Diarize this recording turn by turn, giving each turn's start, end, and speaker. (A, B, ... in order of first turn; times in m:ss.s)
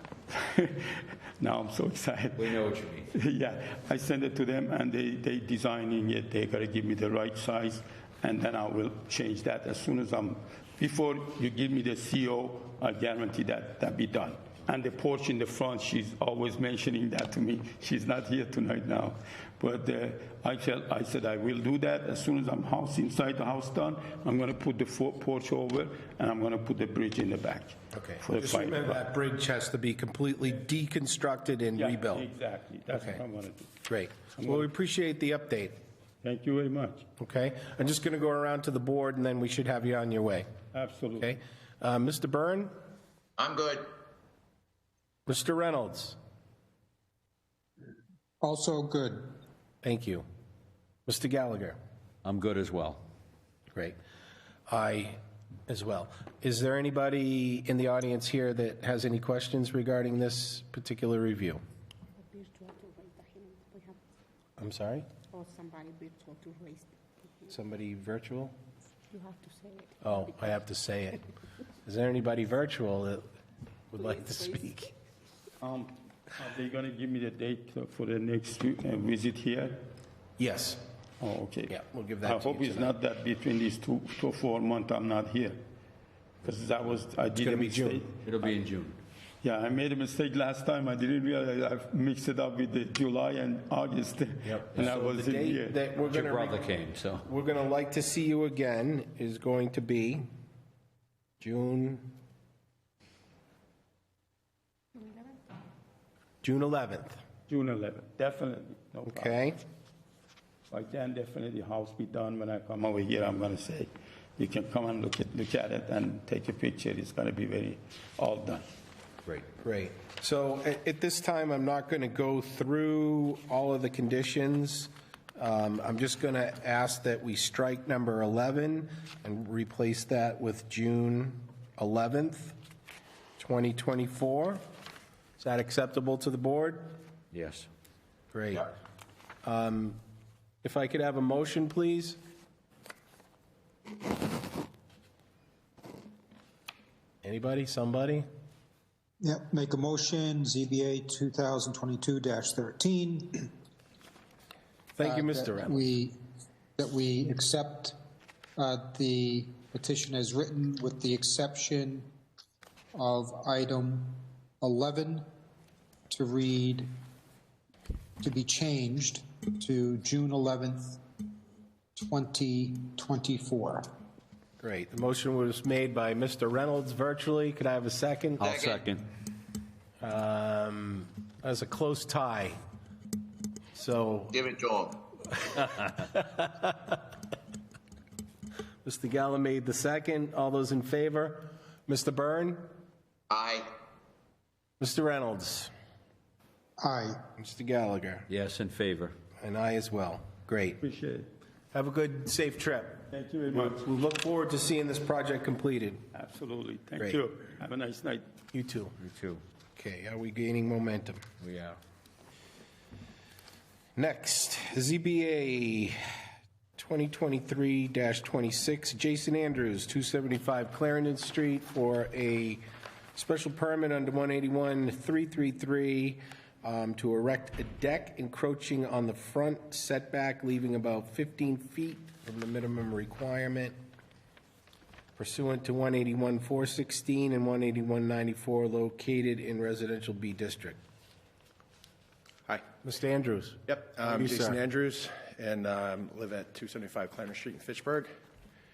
0:00.3-0:02.6 A
0:02.3-0:03.1 B
0:03.1-0:29.0 A
0:27.9-0:32.3 C
0:31.8-0:33.7 A
0:32.9-0:33.2 C
0:33.9-0:35.7 C
0:34.4-0:34.7 A
0:36.2-0:37.1 A
0:37.2-0:40.5 C
0:40.7-0:41.3 A
0:41.2-0:42.7 C
0:43.4-0:43.9 D
0:45.3-0:46.2 C
0:48.4-0:49.4 E
0:49.8-0:50.2 C
0:51.1-0:51.8 C
0:52.2-0:53.0 B
0:54.7-1:01.6 C
1:02.2-1:04.0 F
1:04.6-1:05.1 C
1:05.3-1:07.5 F
1:07.5-1:08.5 C
1:09.1-1:10.4 F
1:10.0-1:11.2 C
1:11.8-1:13.3 C
1:13.9-1:14.9 C
1:14.0-1:14.2 F
1:15.6-1:19.8 A
1:20.4-1:20.8 C
1:21.2-1:25.6 A
1:21.7-1:22.9 C
1:26.4-1:28.2 A
1:27.4-1:28.0 C
1:28.2-1:29.0 B
1:29.4-1:35.8 A
1:34.4-1:40.3 C
1:36.0-1:37.2 B
1:41.4-1:42.1 C
1:46.4-1:47.2 C
1:47.5-1:49.4 A
1:49.1-1:49.6 C
1:50.7-1:58.6 A
1:59.2-2:12.6 C
2:13.4-2:14.6 C
2:15.4-2:17.0 C
2:17.3-2:17.7 B
2:18.3-2:18.7 C
2:19.4-2:20.0 C
2:20.6-2:22.2 C
2:27.2-2:28.2 C
2:29.2-2:33.5 E
2:35.0-2:35.8 C
2:35.0-2:36.1 E
2:36.8-2:38.0 E
2:38.6-2:42.1 E
2:42.9-2:45.2 E
2:46.1-2:46.9 E
2:48.2-2:51.0 E
2:52.0-2:53.9 E
2:54.6-2:58.4 C
2:58.4-2:59.0 B
2:58.4-2:58.8 D
3:00.0-3:02.6 C
3:03.7-3:04.4 C
3:04.3-3:05.0 D
3:05.4-3:06.9 C
3:08.8-3:12.7 C
3:13.3-3:13.7 D
3:14.8-3:15.7 C
3:16.8-3:17.2 E
3:17.4-3:18.2 C
3:18.3-3:19.1 B
3:19.4-3:20.8 C
3:20.8-3:21.3 A
3:21.7-3:26.0 C
3:23.1-3:23.8 A
3:26.1-3:28.2 A
3:28.5-3:28.9 C
3:29.0-3:29.4 B
3:29.8-3:31.2 C
3:31.4-3:31.8 B
3:34.0-3:36.0 C
3:36.8-3:42.6 C
3:43.1-3:53.8 C
3:55.2-4:00.8 C
4:02.8-4:04.6 C
4:03.8-4:08.1 G